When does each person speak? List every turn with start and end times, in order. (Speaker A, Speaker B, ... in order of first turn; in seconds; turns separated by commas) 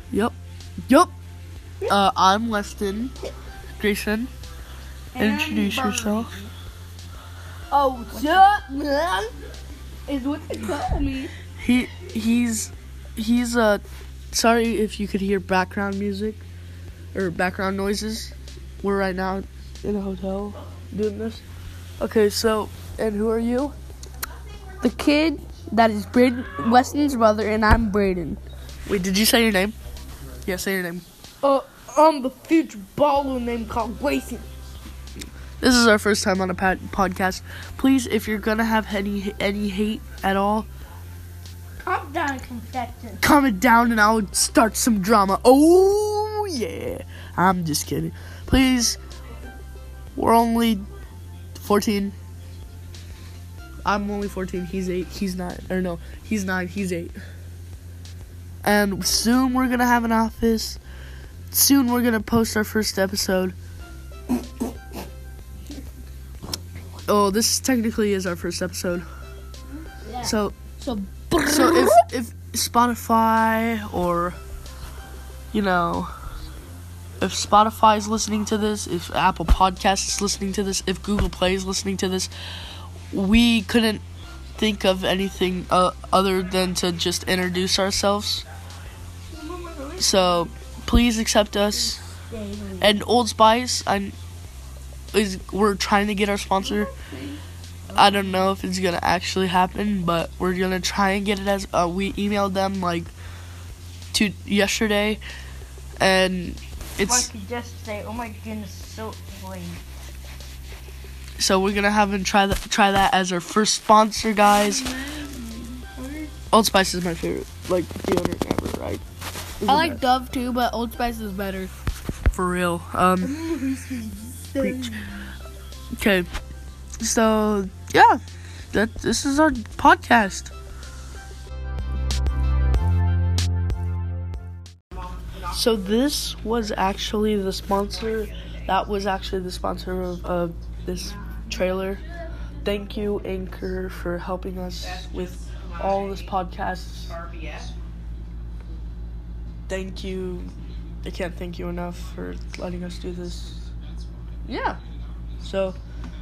Speaker A: 1.8-3.1, Speaker A: 3.8-4.3, Speaker B: 5.1-6.5, Speaker A: 5.2-6.3, Speaker B: 7.7-9.3, Speaker B: 10.1-11.3, Speaker A: 11.5-16.4, Speaker A: 17.1-21.4, Speaker A: 22.0-23.7, Speaker B: 24.8-28.4, Speaker A: 28.9-29.7, Speaker A: 30.4-31.0, Speaker B: 31.4-34.5, Speaker A: 35.6-40.7, Speaker B: 41.8-43.2, Speaker A: 43.2-49.0, Speaker A: 50.1-50.8, Speaker A: 51.5-52.1, Speaker A: 53.9-57.1, Speaker A: 58.6-60.8, Speaker A: 61.5-63.5, Speaker A: 67.1-69.0, Speaker B: 70.1-72.0, Speaker A: 70.2-70.6, Speaker A: 71.4-74.4, Speaker A: 75.5-76.1, Speaker A: 77.2-82.3, Speaker A: 83.1-84.0, Speaker A: 84.5-88.4, Speaker B: 89.3-90.5, Speaker A: 90.0-92.0, Speaker B: 92.0-93.0, Speaker A: 92.8-94.1, Speaker A: 95.1-96.9, Speaker B: 96.6-98.5, Speaker A: 97.9-103.1, Speaker A: 104.1-105.2, Speaker A: 106.0-107.3, Speaker B: 107.0-109.8, Speaker A: 111.4-114.9, Speaker B: 114.5-116.3, Speaker A: 116.5-119.0, Speaker A: 119.6-120.0, Speaker B: 119.7-121.7, Speaker A: 122.3-123.4, Speaker B: 123.2-125.1, Speaker A: 124.6-124.9, Speaker A: 126.0-126.3, Speaker A: 127.0-128.2, Speaker A: 128.7-130.5, Speaker A: 135.4-142.0, Speaker A: 142.6-147.2, Speaker A: 149.7-150.5, Speaker A: 151.0-153.7, Speaker A: 154.4-154.8, Speaker A: 155.4-155.8